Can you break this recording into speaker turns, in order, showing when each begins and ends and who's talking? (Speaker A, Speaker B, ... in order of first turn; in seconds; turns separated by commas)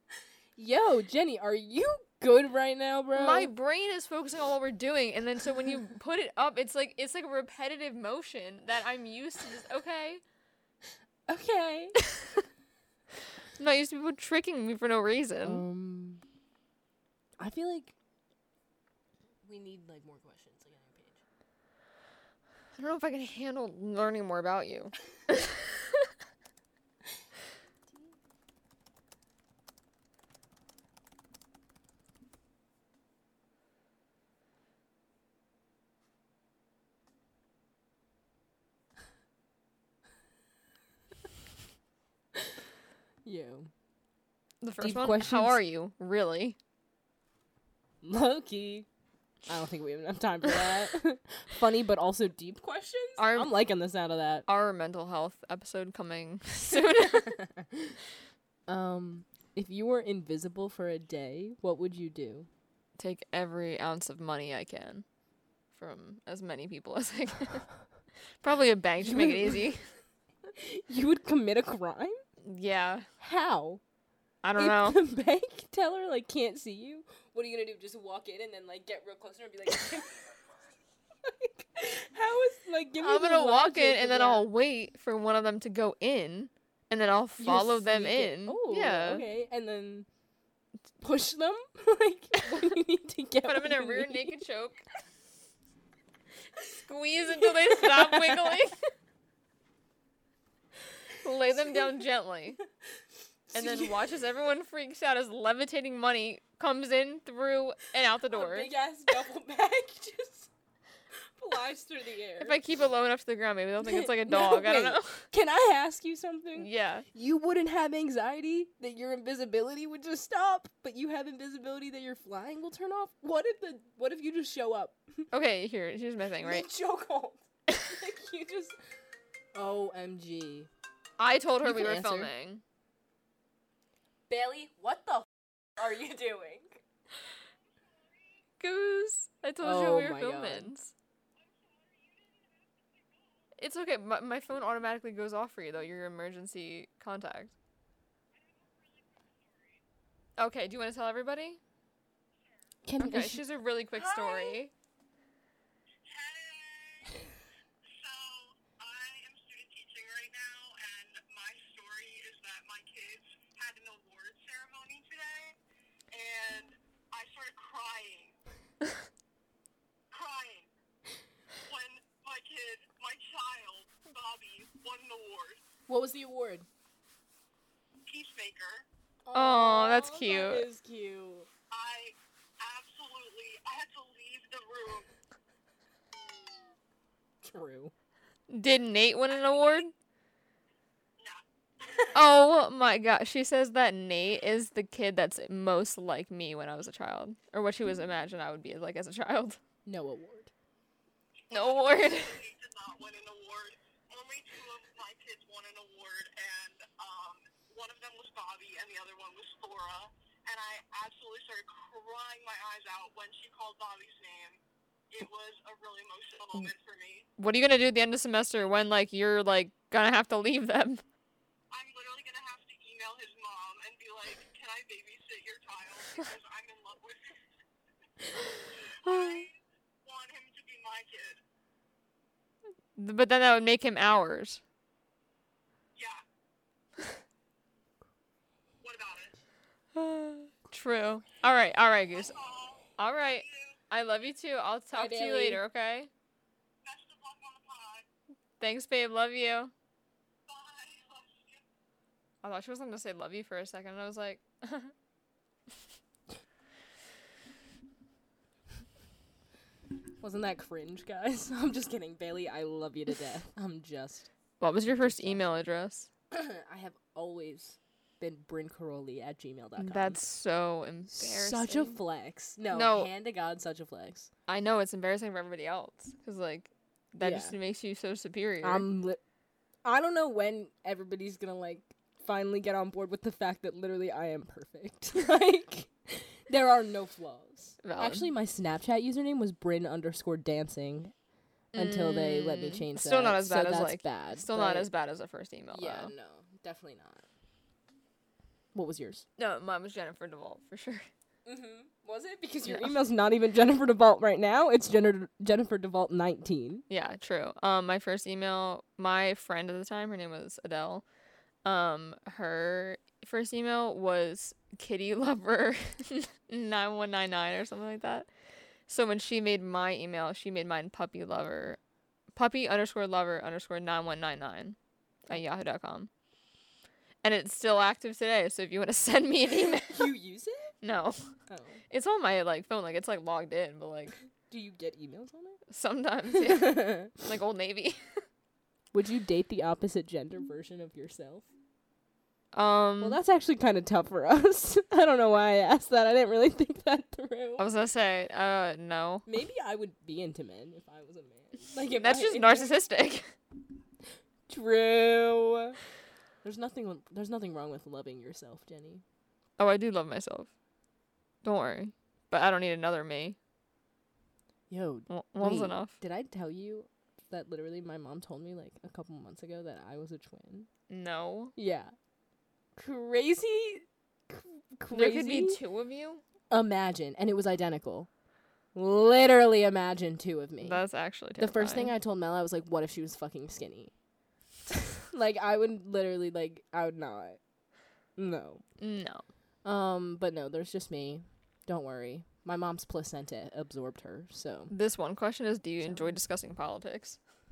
Speaker A: 0.6-3.5, Speaker B: 3.1-10.2, Speaker A: 11.3-12.0, Speaker B: 12.1-12.4, Speaker B: 13.6-15.6, Speaker A: 15.4-16.2, Speaker A: 17.4-17.9, Speaker A: 19.4-21.2, Speaker B: 22.8-26.1, Speaker A: 43.2-43.7, Speaker B: 44.6-46.6, Speaker A: 44.8-45.6, Speaker A: 48.0-48.9, Speaker A: 49.5-54.5, Speaker B: 53.2-53.5, Speaker B: 54.5-57.4, Speaker A: 56.6-58.0, Speaker A: 58.7-62.5, Speaker B: 63.0-65.0, Speaker B: 65.7-67.7, Speaker B: 68.4-69.8, Speaker A: 69.0-69.6, Speaker A: 70.5-72.2, Speaker B: 72.4-73.1, Speaker A: 73.2-73.8, Speaker B: 74.4-75.0, Speaker A: 74.6-80.4, Speaker A: 81.2-84.5, Speaker B: 83.0-89.2, Speaker A: 87.4-90.1, Speaker A: 91.0-94.4, Speaker B: 93.4-94.8, Speaker B: 96.7-98.8, Speaker A: 97.4-98.5, Speaker B: 101.2-102.6, Speaker A: 101.5-101.9, Speaker A: 103.5-104.0, Speaker B: 103.5-108.7, Speaker A: 108.3-110.5, Speaker A: 111.4-112.6, Speaker B: 112.4-115.3, Speaker A: 113.8-125.2, Speaker B: 116.6-117.0, Speaker B: 125.3-126.7, Speaker A: 126.4-128.8, Speaker A: 129.5-130.7, Speaker B: 131.2-132.6, Speaker A: 131.6-132.3, Speaker A: 134.3-136.8, Speaker B: 138.6-140.9, Speaker A: 139.6-140.7, Speaker C: 141.4-143.4, Speaker B: 143.6-147.5, Speaker C: 148.3-149.8, Speaker B: 150.4-151.6, Speaker A: 152.8-153.4, Speaker B: 153.0-154.7, Speaker C: 156.0-157.3, Speaker C: 157.8-165.6, Speaker C: 166.1-168.3, Speaker C: 170.1-170.7, Speaker C: 171.6-175.6, Speaker A: 175.9-176.7, Speaker C: 178.1-178.8, Speaker A: 179.2-181.5, Speaker B: 179.3-180.7, Speaker C: 181.7-185.1, Speaker A: 187.4-187.9, Speaker B: 188.5-189.9, Speaker C: 189.3-189.8, Speaker B: 192.1-199.6, Speaker A: 199.8-200.5, Speaker C: 201.4-214.6, Speaker B: 201.5-202.4, Speaker C: 215.1-217.3, Speaker B: 217.4-221.0, Speaker C: 221.7-227.4, Speaker B: 228.5-229.5, Speaker C: 228.5-231.4, Speaker B: 232.9-234.6, Speaker C: 235.9-236.2, Speaker C: 238.8-239.3, Speaker B: 239.9-242.3, Speaker C: 242.1-243.8, Speaker B: 243.0-246.1, Speaker A: 244.9-245.6, Speaker C: 246.8-248.1, Speaker B: 248.6-249.7, Speaker C: 250.5-251.6, Speaker B: 252.4-254.9, Speaker A: 260.2-264.3, Speaker B: 264.6-266.1, Speaker A: 264.9-265.5, Speaker A: 266.3-270.2, Speaker B: 269.8-272.0, Speaker A: 271.1-274.3, Speaker B: 272.7-273.1, Speaker B: 274.5-278.8, Speaker A: 277.2-277.6, Speaker A: 278.6-279.2, Speaker A: 279.8-291.1, Speaker B: 287.8-288.3, Speaker B: 291.7-296.1, Speaker A: 291.7-294.9, Speaker A: 295.7-297.2, Speaker A: 298.7-299.2, Speaker B: 299.4-301.1, Speaker A: 301.4-306.8, Speaker B: 302.6-302.9, Speaker B: 306.9-311.0, Speaker B: 311.6-318.3, Speaker B: 318.9-321.8, Speaker B: 322.3-326.1, Speaker B: 327.2-330.1, Speaker A: 329.8-330.7, Speaker B: 330.8-331.2, Speaker A: 331.5-331.8, Speaker B: 331.9-334.1, Speaker A: 334.5-335.6, Speaker B: 335.7-338.2, Speaker A: 336.3-337.2, Speaker A: 338.9-341.5, Speaker B: 342.5-343.2, Speaker A: 343.0-347.7, Speaker B: 347.6-349.2, Speaker A: 349.2-352.7, Speaker B: 352.0-353.3, Speaker A: 354.5-355.8, Speaker A: 356.4-359.0, Speaker B: 359.6-360.5, Speaker B: 361.4-363.4, Speaker A: 364.7-370.7, Speaker B: 365.1-366.0, Speaker B: 370.9-371.5, Speaker A: 371.6-371.9, Speaker A: 372.8-375.6, Speaker B: 374.9-376.2, Speaker A: 376.5-378.1, Speaker A: 378.7-380.8, Speaker B: 380.6-381.9, Speaker A: 381.4-383.9, Speaker A: 385.1-387.4, Speaker A: 388.2-388.6, Speaker B: 388.8-389.2, Speaker A: 389.6-394.7, Speaker B: 394.7-397.2, Speaker A: 395.8-396.1